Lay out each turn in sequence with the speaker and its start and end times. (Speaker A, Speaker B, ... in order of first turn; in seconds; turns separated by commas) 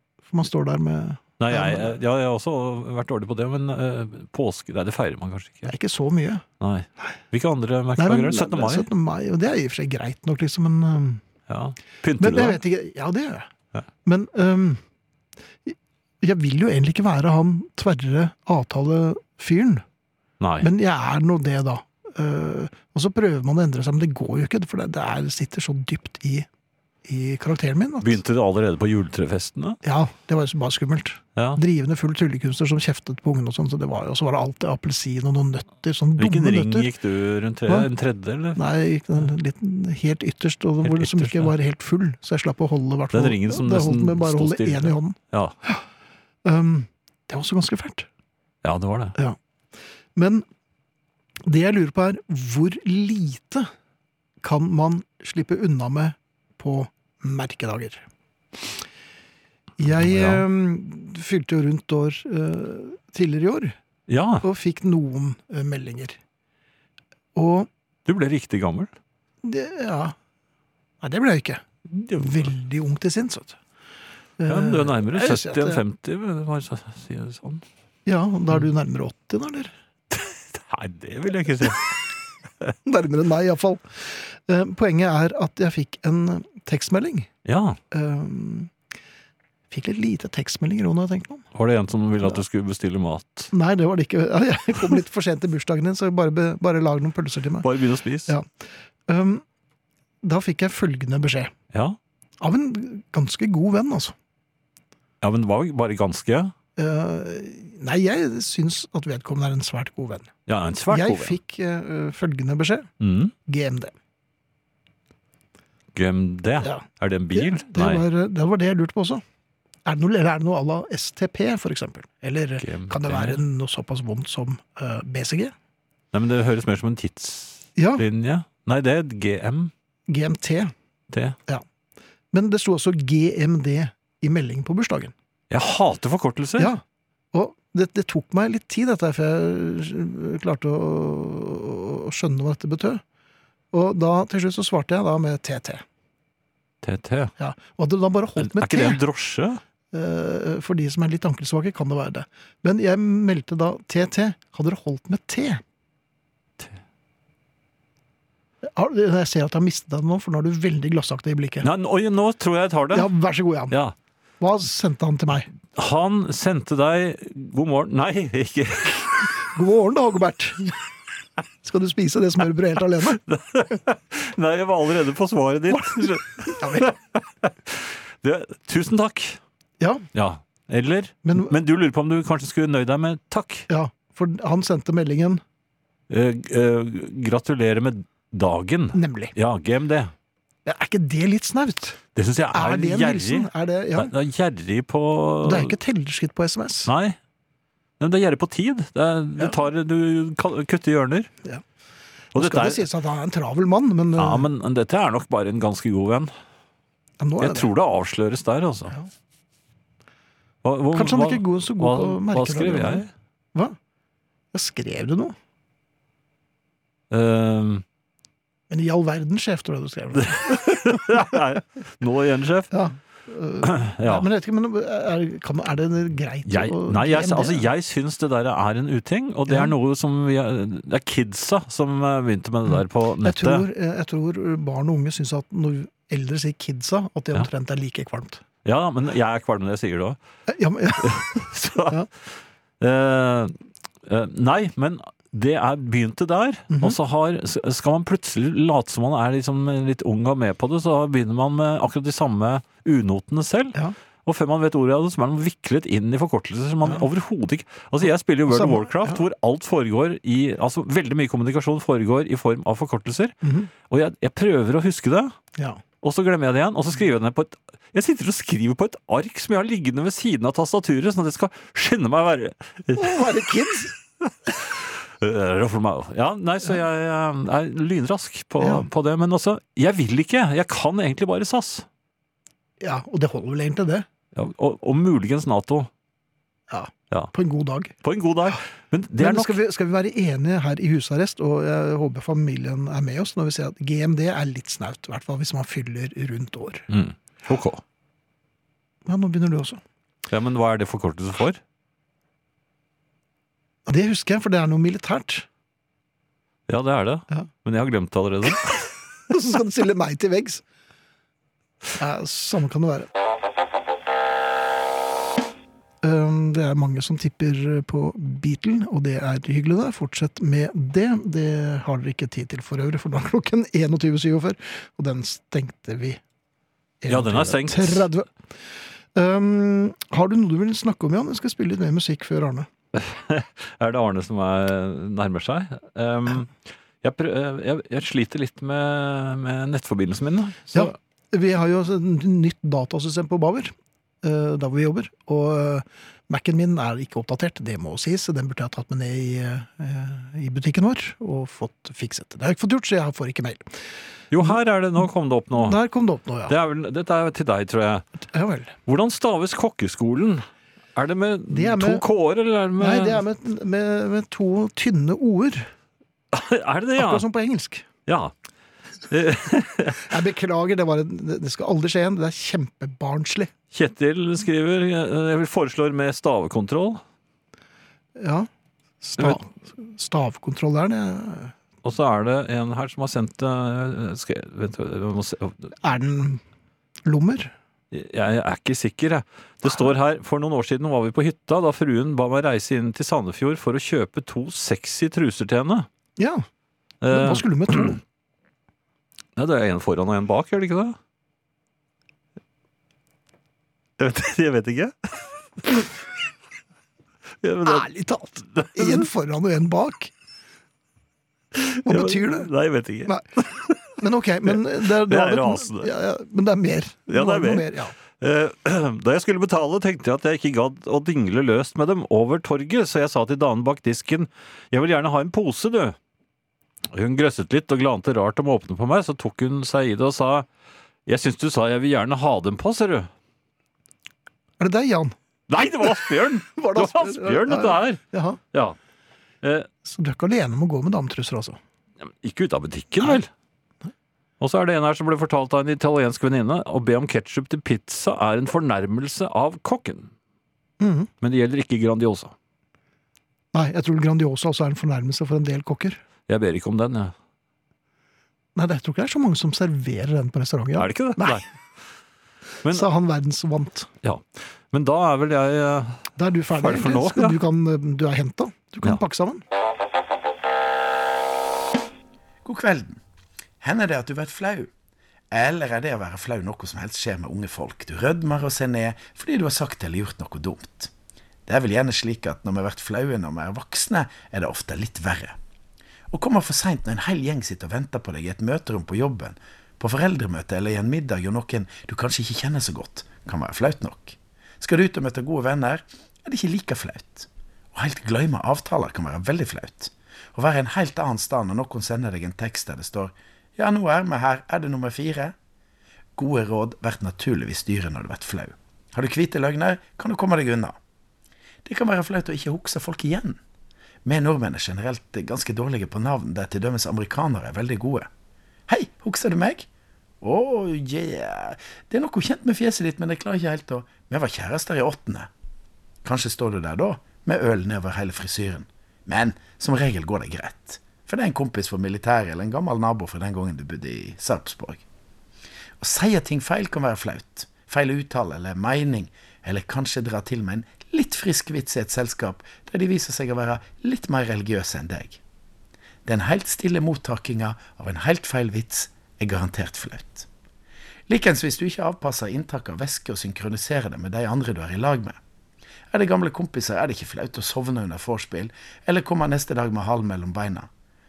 Speaker A: 0.3-2.0, Speaker B: 1.4-5.7, Speaker A: 5.7-6.4, Speaker B: 6.6-8.9, Speaker A: 8.0-11.2, Speaker B: 11.5-12.6, Speaker A: 12.2-13.5, Speaker A: 14.0-14.8, Speaker A: 15.7-19.8, Speaker B: 20.4-20.7, Speaker A: 20.6-26.5, Speaker A: 27.1-28.2, Speaker B: 28.0-29.8, Speaker A: 29.8-36.9, Speaker B: 31.3-31.6, Speaker B: 36.2-38.6, Speaker A: 38.5-45.8, Speaker B: 40.8-41.5, Speaker B: 43.1-45.5, Speaker A: 46.4-48.1, Speaker B: 48.6-49.1, Speaker A: 50.1-50.4, Speaker A: 51.4-53.7, Speaker A: 54.4-58.0, Speaker A: 59.8-63.8, Speaker B: 59.9-60.4, Speaker B: 64.1-64.4, Speaker A: 64.4-66.2, Speaker A: 67.3-67.7, Speaker B: 68.0-68.9, Speaker A: 69.4-70.2, Speaker A: 71.0-73.6, Speaker A: 74.4-75.8, Speaker B: 74.5-77.6, Speaker A: 78.0-79.7, Speaker B: 80.1-82.0, Speaker A: 82.8-87.3, Speaker B: 87.4-87.8, Speaker A: 87.9-88.7, Speaker A: 89.7-91.5, Speaker B: 91.5-93.5, Speaker A: 93.5-97.7, Speaker B: 97.6-98.3, Speaker A: 99.1-99.4, Speaker A: 100.2-101.5, Speaker B: 101.7-102.0, Speaker A: 102.4-104.1, Speaker B: 105.2-106.5, Speaker A: 106.8-110.3, Speaker B: 110.5-111.4, Speaker A: 110.9-112.9, Speaker B: 113.0-113.3, Speaker A: 113.5-113.9, Speaker B: 115.9-118.0, Speaker A: 116.6-119.2, Speaker A: 119.8-125.5, Speaker B: 122.6-123.4, Speaker B: 126.1-129.7, Speaker A: 127.8-128.0, Speaker A: 130.1-130.7, Speaker B: 131.1-131.4, Speaker A: 132.3-135.1, Speaker B: 135.5-136.7, Speaker A: 136.6-136.8, Speaker A: 137.3-143.0, Speaker A: 143.7-145.8, Speaker B: 146.8-147.3, Speaker A: 147.4-149.0, Speaker B: 148.4-149.6, Speaker A: 149.9-155.6, Speaker A: 158.6-161.7, Speaker B: 161.6-163.1, Speaker A: 162.9-163.8, Speaker B: 163.7-163.9, Speaker A: 164.4-165.5, Speaker B: 165.7-169.3, Speaker A: 169.5-170.8, Speaker A: 171.6-173.2, Speaker B: 173.0-179.4, Speaker A: 176.4-176.9, Speaker A: 179.8-180.1, Speaker B: 180.1-183.7, Speaker A: 181.2-181.5, Speaker A: 183.7-185.4, Speaker B: 186.1-190.1, Speaker A: 188.9-189.3, Speaker A: 190.7-192.0, Speaker B: 192.1-195.8, Speaker A: 192.5-194.1, Speaker A: 195.4-196.9, Speaker B: 196.8-197.2, Speaker B: 198.0-201.3, Speaker B: 202.3-202.9, Speaker A: 202.3-204.5, Speaker B: 204.2-206.3, Speaker A: 207.2-207.7, Speaker B: 207.4-208.9, Speaker B: 210.6-213.1, Speaker A: 210.9-213.8, Speaker A: 214.5-215.3, Speaker B: 217.1-217.8, Speaker A: 218.7-221.2, Speaker B: 220.2-222.7, Speaker A: 222.7-227.7, Speaker B: 223.6-224.3, Speaker B: 226.4-233.7, Speaker A: 233.2-238.4, Speaker B: 238.6-240.2, Speaker A: 240.5-241.4, Speaker B: 241.0-265.3, Speaker A: 246.7-247.0, Speaker A: 258.5-259.2, Speaker A: 263.4-263.7, Speaker B: 266.0-273.4, Speaker A: 272.9-273.9, Speaker B: 274.2-281.9, Speaker A: 278.6-278.9, Speaker A: 282.8-284.1, Speaker B: 284.3-285.9, Speaker A: 286.7-287.9, Speaker B: 288.0-289.6, Speaker A: 289.2-296.9, Speaker B: 296.9-297.8, Speaker A: 299.1-299.8, Speaker B: 300.3-301.6, Speaker A: 303.9-305.5, Speaker B: 306.7-308.9, Speaker A: 309.3-310.6, Speaker A: 311.9-313.1, Speaker A: 316.0-326.2, Speaker A: 327.0-328.3, Speaker B: 327.1-328.1, Speaker A: 329.1-332.7, Speaker B: 332.9-340.9, Speaker A: 340.7-353.7, Speaker B: 354.3-355.8, Speaker A: 355.6-356.6, Speaker B: 356.5-358.1, Speaker A: 358.3-358.8, Speaker B: 358.9-363.2, Speaker A: 361.5-362.0, Speaker A: 362.8-365.7, Speaker B: 366.3-367.2, Speaker A: 366.9-367.9, Speaker B: 368.1-368.3, Speaker B: 369.1-370.2, Speaker A: 370.0-373.5, Speaker B: 373.7-377.0, Speaker A: 378.1-378.5, Speaker A: 379.0-381.5, Speaker B: 381.8-385.7, Speaker A: 385.8-386.4, Speaker A: 387.0-387.5, Speaker B: 387.9-395.9, Speaker A: 396.2-396.4, Speaker B: 397.0-398.0, Speaker A: 397.1-398.0, Speaker B: 399.4-401.0, Speaker B: 404.0-405.9, Speaker B: 407.4-407.9, Speaker A: 407.6-410.1, Speaker B: 408.5-409.1, Speaker B: 411.5-415.9, Speaker A: 411.8-412.5, Speaker A: 413.9-417.9, Speaker B: 417.1-425.9, Speaker B: 426.9-430.5, Speaker B: 431.1-433.1, Speaker A: 434.6-435.1, Speaker B: 435.5-438.0, Speaker A: 436.5-438.4, Speaker B: 439.4-439.7, Speaker A: 439.8-441.6, Speaker B: 442.0-443.3, Speaker B: 444.4-450.1, Speaker A: 450.8-451.1, Speaker B: 451.2-452.3, Speaker A: 453.5-456.0, Speaker B: 456.3-457.1, Speaker A: 458.6-461.4, Speaker B: 460.8-461.4, Speaker A: 462.7-463.9, Speaker B: 464.0-467.4, Speaker A: 466.1-469.4, Speaker C: 472.4-473.0, Speaker C: 473.6-474.7, Speaker C: 475.3-480.9, Speaker C: 481.4-485.4, Speaker C: 486.1-505.3, Speaker C: 506.1-510.8, Speaker C: 511.6-513.4, Speaker C: 514.0-518.1, Speaker C: 518.7-519.7, Speaker C: 520.2-525.3, Speaker C: 526.0-534.8, Speaker C: 535.8-545.2, Speaker C: 546.0-550.3, Speaker C: 551.1-555.2, Speaker C: 555.9-560.7